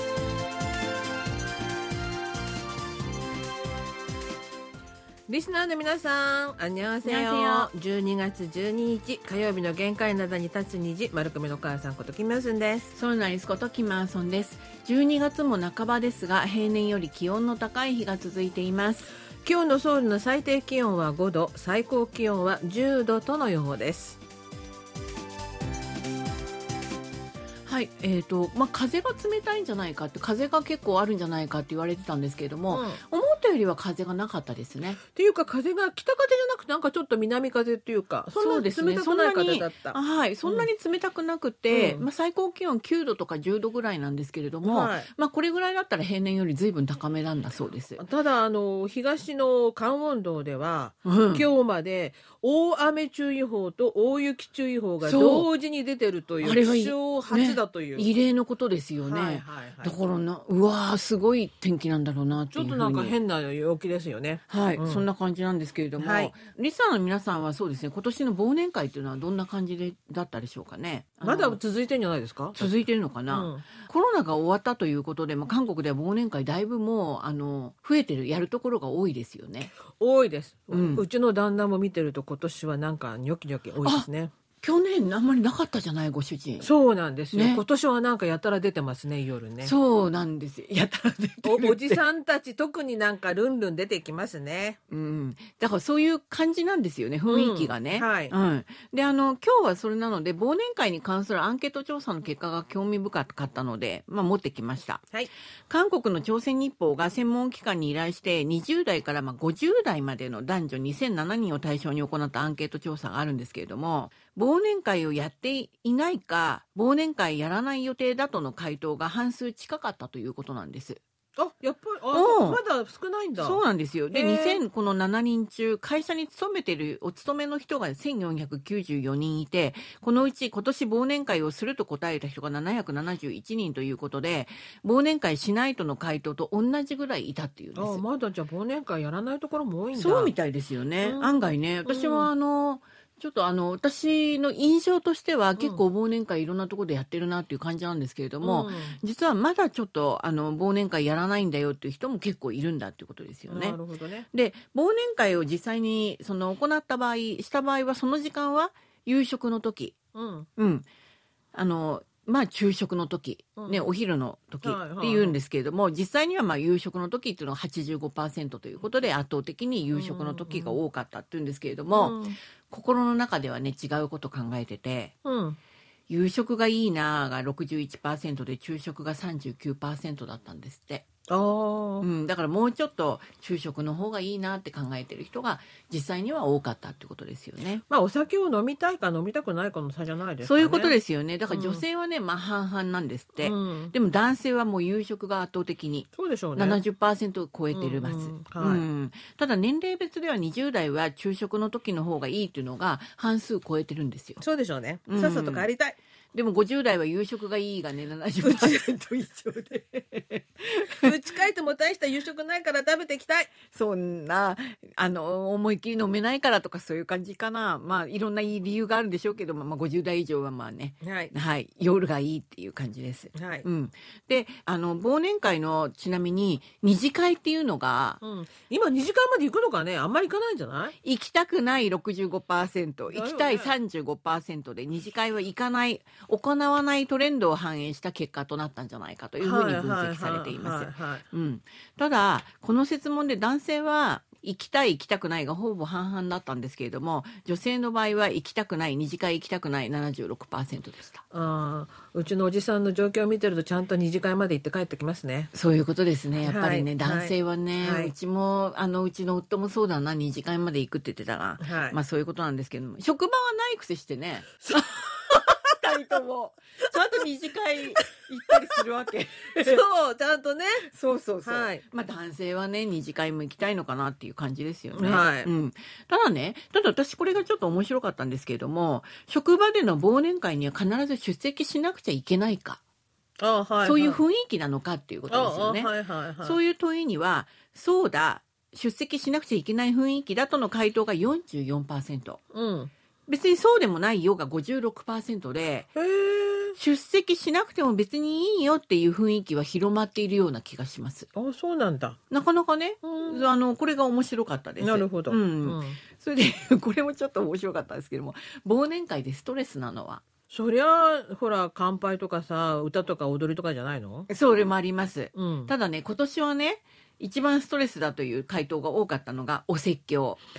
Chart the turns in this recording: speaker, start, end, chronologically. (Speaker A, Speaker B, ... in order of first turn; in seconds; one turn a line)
Speaker A: 5.3-12.9
Speaker B: 7.0-7.7
Speaker B: 12.9-19.1
Speaker A: 19.4-24.2
Speaker B: 27.6-35.0
Speaker A: 32.7-33.0
Speaker A: 35.1-40.7
Speaker B: 38.3-48.0
Speaker A: 41.7-42.1
Speaker A: 44.6-45.1
Speaker A: 48.0-58.1
Speaker B: 51.0-51.5
Speaker B: 55.0-55.5
Speaker B: 56.4-63.2
Speaker A: 59.0-60.0
Speaker A: 62.5-65.1
Speaker B: 64.5-71.6
Speaker A: 66.0-66.3
Speaker A: 71.2-72.7
Speaker B: 72.6-79.7
Speaker A: 73.3-73.7
Speaker A: 79.9-84.3
Speaker B: 80.7-81.1
Speaker B: 84.6-86.7
Speaker A: 86.6-89.7
Speaker B: 87.3-87.6
Speaker B: 89.6-92.0
Speaker A: 91.4-94.8
Speaker B: 94.9-105.0
Speaker A: 97.3-98.3
Speaker B: 105.7-121.0
Speaker A: 121.4-123.6
Speaker B: 122.1-122.6
Speaker B: 123.4-138.0
Speaker A: 124.1-124.6
Speaker A: 137.8-140.3
Speaker B: 140.0-153.8
Speaker A: 141.0-142.3
Speaker A: 148.4-149.0
Speaker A: 153.5-154.3
Speaker B: 154.3-160.0
Speaker A: 160.1-160.5
Speaker B: 160.6-160.9
Speaker B: 161.5-175.2
Speaker A: 163.6-163.9
Speaker A: 164.6-165.4
Speaker A: 169.9-170.8
Speaker A: 171.9-172.4
Speaker A: 175.2-175.6
Speaker B: 176.1-181.1
Speaker A: 181.3-182.1
Speaker B: 182.0-187.8
Speaker A: 187.9-191.0
Speaker B: 190.4-204.4
Speaker A: 191.5-191.8
Speaker A: 193.4-193.9
Speaker A: 196.2-196.8
Speaker A: 197.7-198.8
Speaker A: 204.4-206.0
Speaker B: 205.1-205.7
Speaker B: 206.3-211.1
Speaker A: 208.4-208.8
Speaker A: 210.9-213.5
Speaker B: 213.7-228.2
Speaker A: 221.0-221.3
Speaker A: 223.3-223.7
Speaker A: 228.2-231.0
Speaker B: 231.0-251.2
Speaker A: 233.1-233.7
Speaker A: 239.4-241.2
Speaker A: 251.3-255.5
Speaker B: 255.5-269.8
Speaker A: 256.4-258.1
Speaker A: 261.6-262.0
Speaker A: 264.7-265.4
Speaker A: 268.0-268.5
Speaker A: 269.6-270.9
Speaker B: 270.9-282.8
Speaker A: 271.4-271.8
Speaker A: 274.9-275.5
Speaker A: 283.4-284.2
Speaker B: 283.8-292.4
Speaker A: 285.3-286.6
Speaker A: 292.5-292.9
Speaker B: 293.3-295.9
Speaker A: 295.9-296.8
Speaker B: 296.8-301.3
Speaker A: 301.4-302.2
Speaker B: 302.3-310.2
Speaker A: 303.0-303.5
Speaker A: 304.8-306.0
Speaker A: 310.5-314.3
Speaker B: 314.3-320.4
Speaker A: 315.3-315.7